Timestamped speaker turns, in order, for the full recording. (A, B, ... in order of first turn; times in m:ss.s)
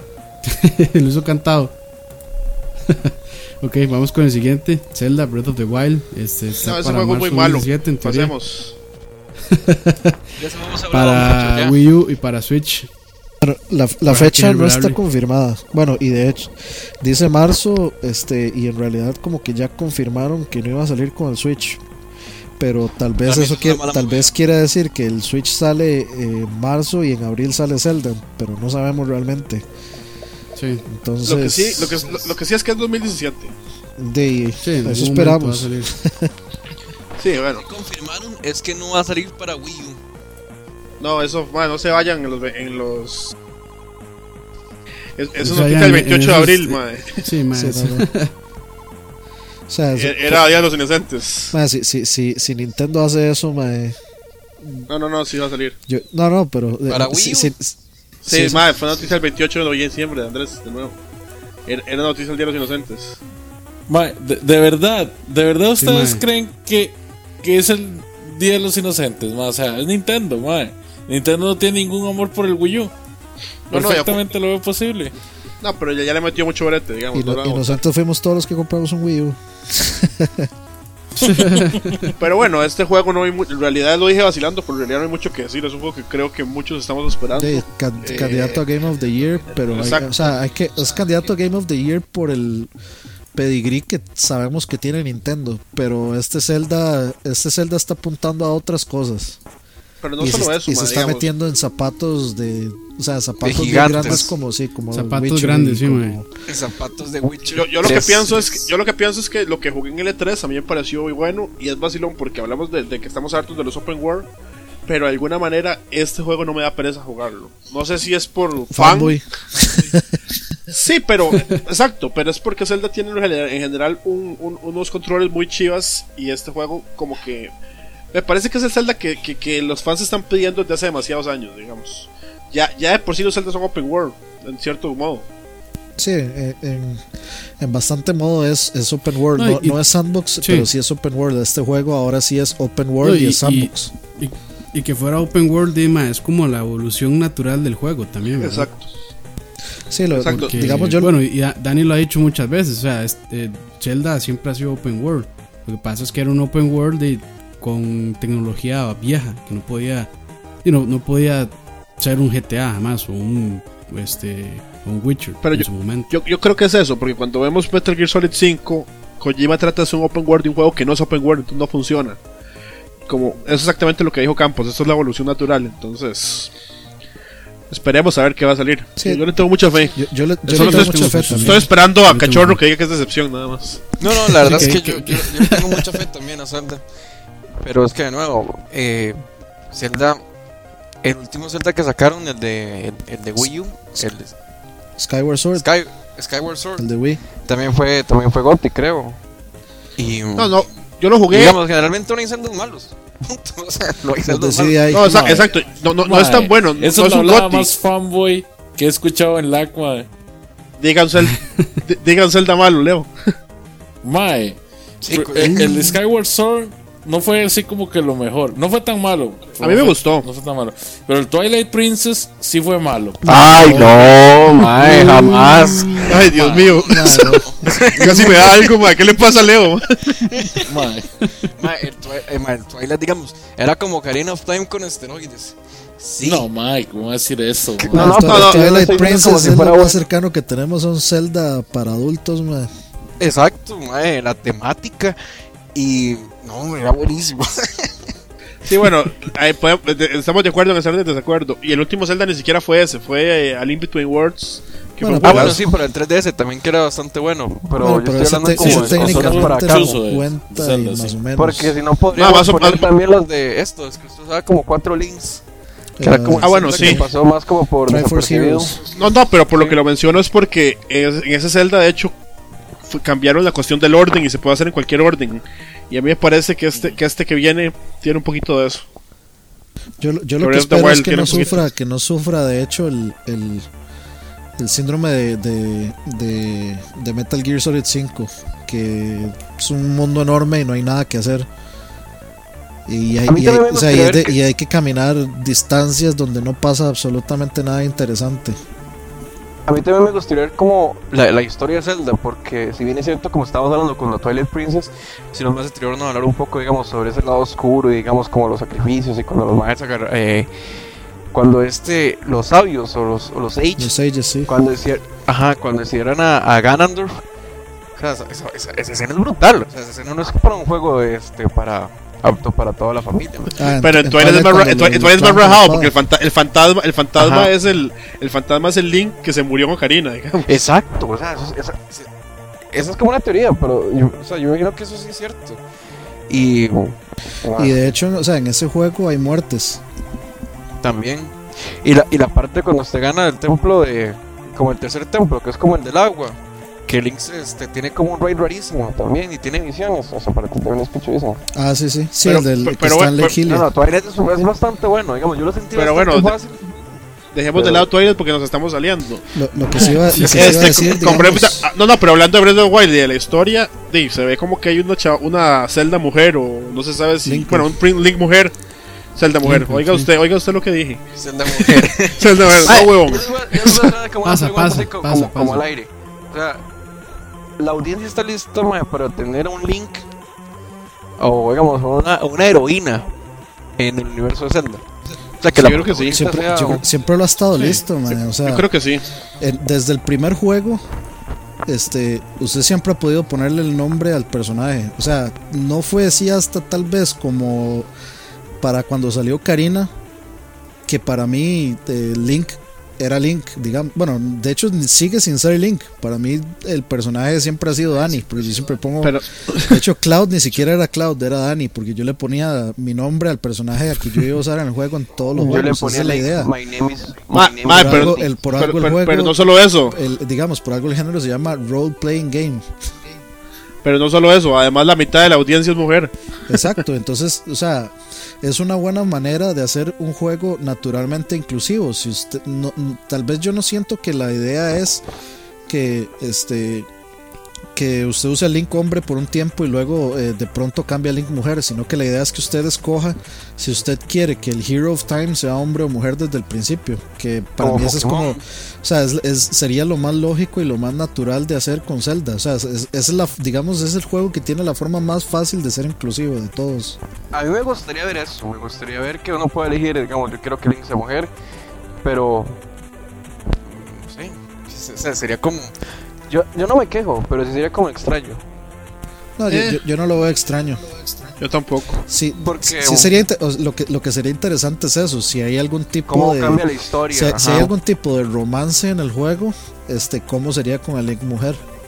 0:00.4-0:01.7 A
0:02.9-0:08.3 A
0:06.6-0:08.7 B
0:09.5-0:10.2 A
0:10.4-0:11.8 C
0:10.9-0:12.9 A
0:13.4-0:21.8 D
0:14.1-0:15.0 A
0:22.6-0:29.6 D
0:23.2-0:24.3 C
0:30.6-0:30.8 A
0:30.9-0:32.3 D
0:31.2-0:33.5 B
0:34.0-0:36.3 D
0:34.6-0:35.9 A
0:37.2-0:37.6 B
0:37.6-0:40.0 C
0:41.0-0:43.3 B
0:45.2-0:47.2 B
0:45.4-0:48.3 A
0:47.5-0:48.1 D
0:49.7-0:50.4 D
0:50.0-0:51.6 B
0:51.5-0:54.0 D
0:54.6-0:54.9 D
0:54.9-0:55.8 B
0:55.9-0:58.6 D
0:56.9-0:57.5 C
0:58.2-1:01.0 B
1:01.6-1:03.2 B
1:03.9-1:12.9 E
1:05.8-1:06.2 A
1:13.7-1:14.2 B
1:13.7-1:15.1 E
1:15.6-1:17.8 B
1:17.1-1:20.5 D
1:21.2-1:21.9 E
1:21.2-1:22.1 A
1:22.1-1:28.6 B
1:27.3-1:32.7 D
1:29.6-1:30.3 B
1:33.3-1:39.4 D
1:40.0-1:41.3 B
1:40.2-1:46.2 D
1:43.4-1:44.3 C
1:44.9-1:46.2 A
1:46.4-1:48.6 C
1:47.5-1:54.3 B
1:54.9-1:59.2 B
1:58.7-2:00.0 D
2:00.7-2:07.5 B
2:08.1-2:15.2 B
2:16.0-2:17.1 D
2:17.6-2:23.9 D
2:19.3-2:19.8 A
2:20.4-2:20.7 A
2:23.0-2:28.7 A
2:28.4-2:28.8 B
2:29.9-2:31.1 D
2:30.1-2:30.9 B
2:30.4-2:40.1 A
2:40.6-2:46.1 A
2:45.4-2:52.2 B
2:53.1-2:56.5 B
2:57.7-3:00.0 B
2:59.0-2:59.2 D
2:59.9-3:01.7 D
3:00.5-3:02.6 A
3:00.5-3:03.9 B
3:04.0-3:06.8 C
3:04.4-3:05.8 A
3:04.4-3:04.8 D
3:07.6-3:09.2 C
3:09.7-3:10.2 C
3:11.0-3:14.3 C
3:13.4-3:14.0 D
3:15.0-3:15.7 D
3:15.6-3:16.9 C
3:16.8-3:17.2 D
3:17.4-3:19.2 C
3:20.0-3:20.6 C
3:20.4-3:21.6 B
3:21.3-3:25.5 C
3:24.2-3:25.5 D
3:24.9-3:27.7 B
3:26.0-3:30.1 E
3:30.8-3:33.3 B
3:31.3-3:31.8 A
3:34.0-3:43.2 E
3:35.0-3:35.9 C
3:35.4-3:35.9 A
3:39.6-3:40.2 B
3:43.2-3:44.2 D
3:43.2-3:48.6 C
3:44.8-3:46.0 A
3:46.1-3:47.4 B
3:46.3-3:46.6 E
3:46.9-3:48.4 D
3:47.9-3:50.2 B
3:50.3-3:50.6 C
3:50.7-3:51.1 E
3:51.6-3:56.5 C
3:56.2-3:58.4 E
3:57.8-4:00.0 C
3:57.9-4:02.7 D
3:58.0-3:58.7 B
4:03.2-4:05.2 C
4:05.7-4:08.0 C
4:08.6-4:15.6 B
4:15.0-4:15.6 D
4:15.2-4:19.9 C
4:17.8-4:21.7 D
4:18.6-4:21.2 E
4:21.4-4:25.4 C
4:22.1-4:22.9 B
4:26.0-4:27.1 D
4:26.0-4:28.8 C
4:26.4-4:27.0 B
4:27.9-4:28.8 D
4:29.0-4:32.2 B
4:29.6-4:29.8 C
4:32.9-4:38.9 B
4:40.0-4:43.7 D
4:40.4-4:41.6 B
4:44.6-4:51.5 D
4:52.9-4:58.6 D
4:53.3-4:54.4 C
4:59.7-5:10.5 C
5:11.3-5:13.9 C
5:13.8-5:14.5 D
5:14.4-5:17.2 C
5:18.0-5:23.5 C
5:23.6-5:25.9 D
5:23.8-5:30.5 B
5:27.2-5:27.5 C
5:30.4-5:32.1 C
5:32.7-5:35.6 C
5:36.3-5:37.9 C
5:37.6-5:39.8 D
5:40.8-5:51.4 C
5:51.5-5:53.7 D
5:52.2-5:53.3 B
5:53.4-5:56.8 C
5:55.7-5:56.4 B
5:57.3-5:59.3 B
5:57.5-5:57.9 C
5:59.3-6:01.7 D
5:59.8-6:08.5 B
6:00.1-6:00.6 A
6:07.2-6:07.7 D
6:09.2-6:13.9 B
6:09.4-6:10.1 A
6:11.2-6:16.6 C
6:14.2-6:15.6 A
6:17.6-6:20.0 C
6:21.2-6:23.1 C
6:23.8-6:24.8 C
6:25.4-6:26.8 C
6:25.5-6:26.3 B
6:26.1-6:28.6 D
6:27.6-6:27.8 B
6:28.4-6:29.0 B
6:29.4-6:30.8 D
6:31.6-6:37.9 D
6:38.6-6:39.9 D
6:40.9-6:56.5 D
6:49.0-6:49.8 B
6:55.3-6:58.3 C
6:57.3-7:00.0 B
6:57.7-6:59.4 D
6:59.9-7:02.7 D
7:03.8-7:06.7 B
7:06.5-7:15.0 D
7:15.7-7:16.9 D
7:17.7-7:37.0 D
7:27.6-7:28.4 C
7:37.3-7:41.3 C
7:42.0-7:42.6 C
7:43.6-7:45.7 C
7:46.3-7:48.4 C
7:49.4-7:50.8 D
7:49.5-7:49.8 B
7:51.4-7:52.0 B
7:52.1-8:01.6 D
7:52.4-7:53.1 C
7:56.1-7:57.7 C